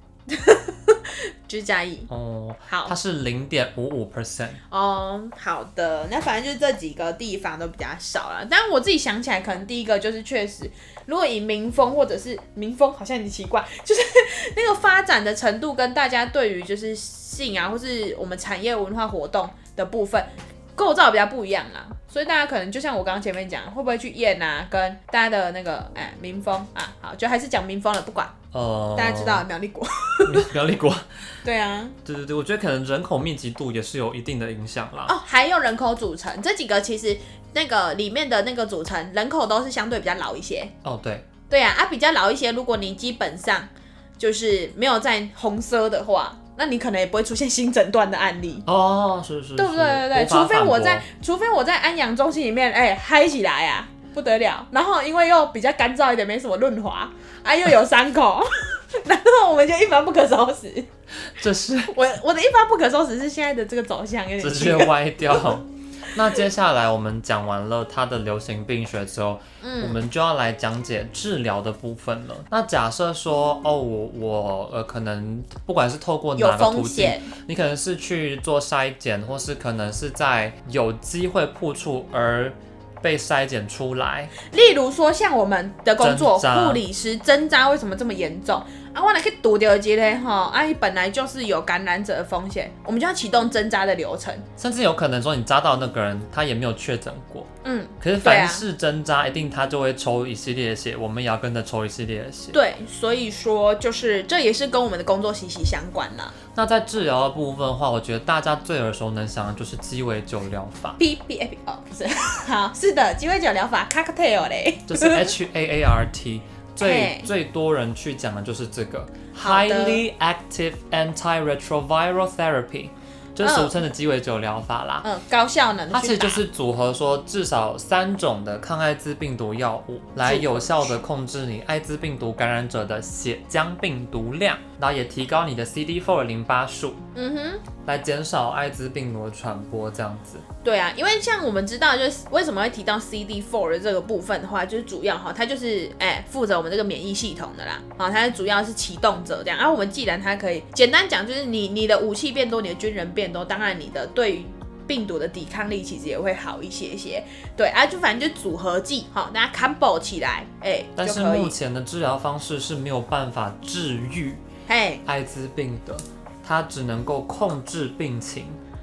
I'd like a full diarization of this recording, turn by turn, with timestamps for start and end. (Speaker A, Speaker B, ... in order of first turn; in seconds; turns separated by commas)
Speaker A: 0.3-2.1, Speaker B: 2.1-4.6, Speaker A: 2.7-2.9, Speaker A: 4.7-28.3, Speaker B: 28.5-29.4, Speaker A: 28.9-30.5, Speaker B: 30.2-31.3, Speaker A: 31.4-32.0, Speaker B: 32.0-35.1, Speaker A: 35.1-40.7, Speaker B: 40.8-41.3, Speaker A: 41.5-48.6, Speaker B: 48.6-51.0, Speaker A: 49.6-60.9, Speaker B: 61.2-62.0, Speaker A: 61.8-65.5, Speaker B: 64.4-84.3, Speaker A: 69.6-70.0, Speaker A: 76.4-77.3, Speaker A: 84.5-94.5, Speaker B: 86.0-86.8, Speaker B: 94.6-102.6, Speaker A: 97.6-98.6, Speaker A: 102.5-106.3, Speaker B: 106.5-111.0, Speaker A: 111.0-115.3, Speaker B: 114.9-125.0, Speaker A: 116.8-117.3, Speaker A: 119.4-120.0, Speaker A: 123.4-123.7, Speaker A: 125.0-126.4, Speaker B: 125.9-137.0, Speaker A: 130.2-131.0, Speaker A: 137.1-137.6, Speaker B: 137.8-140.4, Speaker A: 140.6-161.5, Speaker B: 161.0-164.4, Speaker A: 164.7-165.0, Speaker B: 165.0-168.6